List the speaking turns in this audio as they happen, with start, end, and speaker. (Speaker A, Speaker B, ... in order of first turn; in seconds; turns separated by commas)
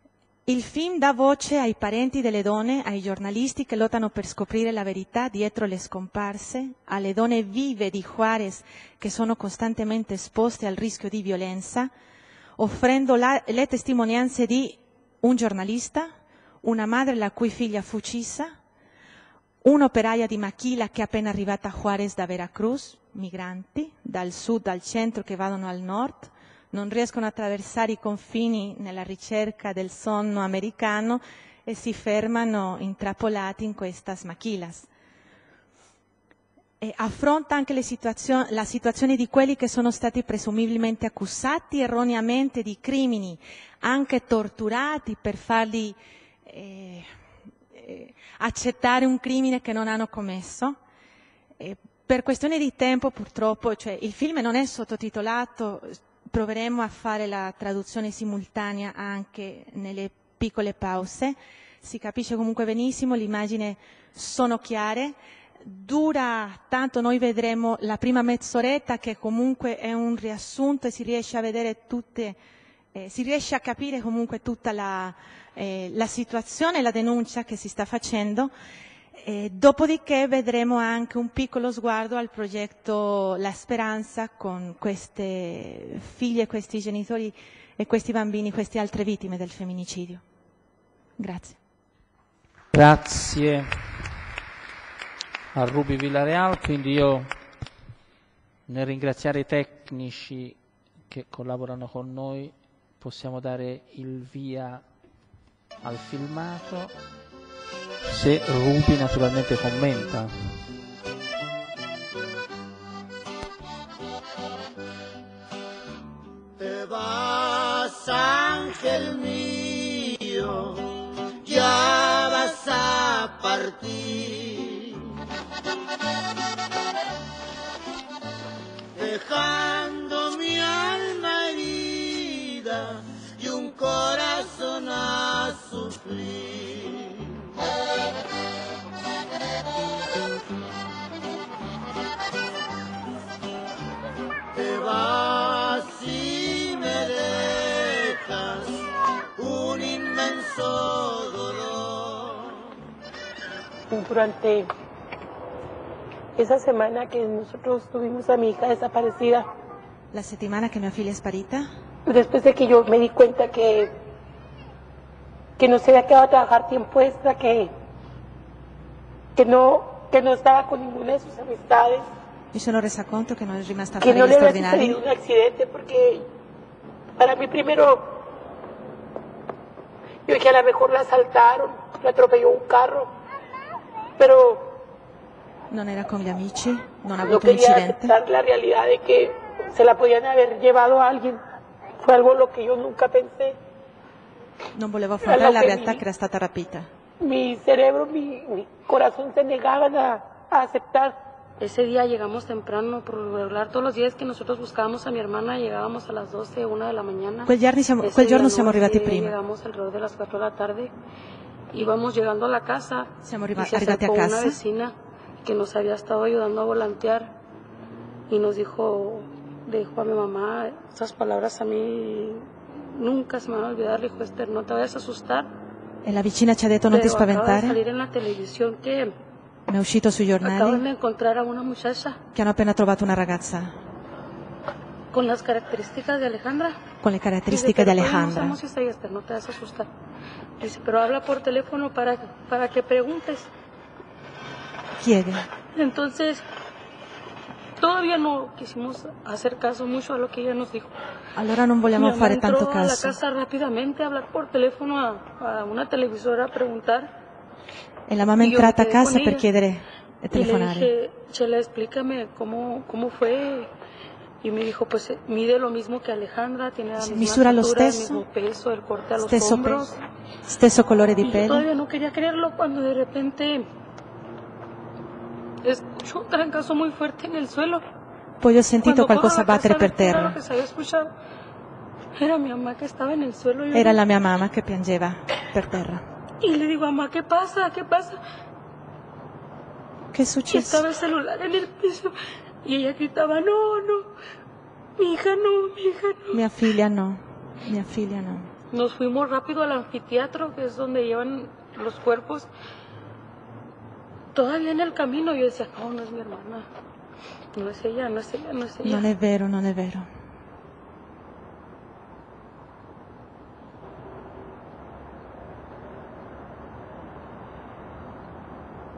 Speaker A: 0.5-11.9, Speaker A: 12.6-18.6, Speaker A: 19.6-34.9, Speaker A: 36.8-47.1, Speaker A: 47.7-50.8, Speaker A: 51.6-72.4, Speaker A: 72.9-78.5, Speaker A: 79.2-90.2, Speaker A: 91.2-91.6, Speaker B: 92.7-93.9, Speaker B: 95.5-97.3, Speaker B: 98.7-100.6, Speaker B: 101.1-104.8, Speaker B: 105.8-106.9, Speaker B: 108.1-110.5, Speaker C: 116.6-120.9, Speaker C: 121.4-125.0, Speaker C: 128.9-137.2, Speaker C: 144.5-148.8, Speaker C: 149.4-152.6, Speaker D: 153.9-154.7, Speaker D: 156.3-159.5, Speaker A: 160.1-161.7, Speaker D: 162.1-163.9, Speaker D: 165.6-167.7, Speaker D: 169.3-172.1, Speaker A: 172.5-175.0, Speaker D: 174.0-176.3, Speaker D: 177.2-178.2, Speaker D: 180.3-183.1, Speaker D: 184.2-184.8, Speaker A: 185.7-188.1, Speaker D: 187.2-191.4, Speaker D: 192.0-193.6, Speaker A: 194.7-196.9, Speaker D: 195.2-196.0, Speaker D: 197.2-201.2, Speaker E: 201.6-210.9, Speaker A: 207.4-209.3, Speaker E: 211.7-217.3, Speaker A: 213.2-214.6, Speaker E: 218.3-225.5, Speaker A: 226.0-227.8, Speaker E: 226.9-229.1, Speaker A: 229.7-230.8, Speaker E: 230.4-232.2, Speaker A: 232.3-233.7, Speaker E: 235.1-236.8, Speaker A: 237.0-238.6, Speaker E: 237.5-239.9, Speaker E: 240.6-243.5, Speaker A: 245.0-245.5, Speaker E: 245.7-246.4, Speaker E: 247.8-250.9, Speaker A: 251.3-253.2, Speaker E: 251.9-257.1, Speaker A: 258.1-260.9, Speaker E: 258.4-259.5, Speaker E: 260.3-263.7, Speaker E: 264.4-270.0, Speaker A: 267.0-268.2, Speaker A: 269.2-271.6, Speaker E: 271.2-273.7, Speaker E: 275.6-277.8, Speaker A: 278.4-280.4, Speaker E: 278.8-281.1, Speaker E: 282.2-284.0, Speaker A: 283.7-286.0, Speaker E: 286.4-288.2, Speaker A: 290.1-290.8, Speaker E: 290.5-292.1, Speaker E: 292.6-294.1, Speaker E: 295.0-296.4, Speaker A: 296.3-298.5, Speaker E: 298.7-302.5, Speaker E: 304.3-306.7, Speaker E: 307.5-309.1, Speaker A: 308.8-310.1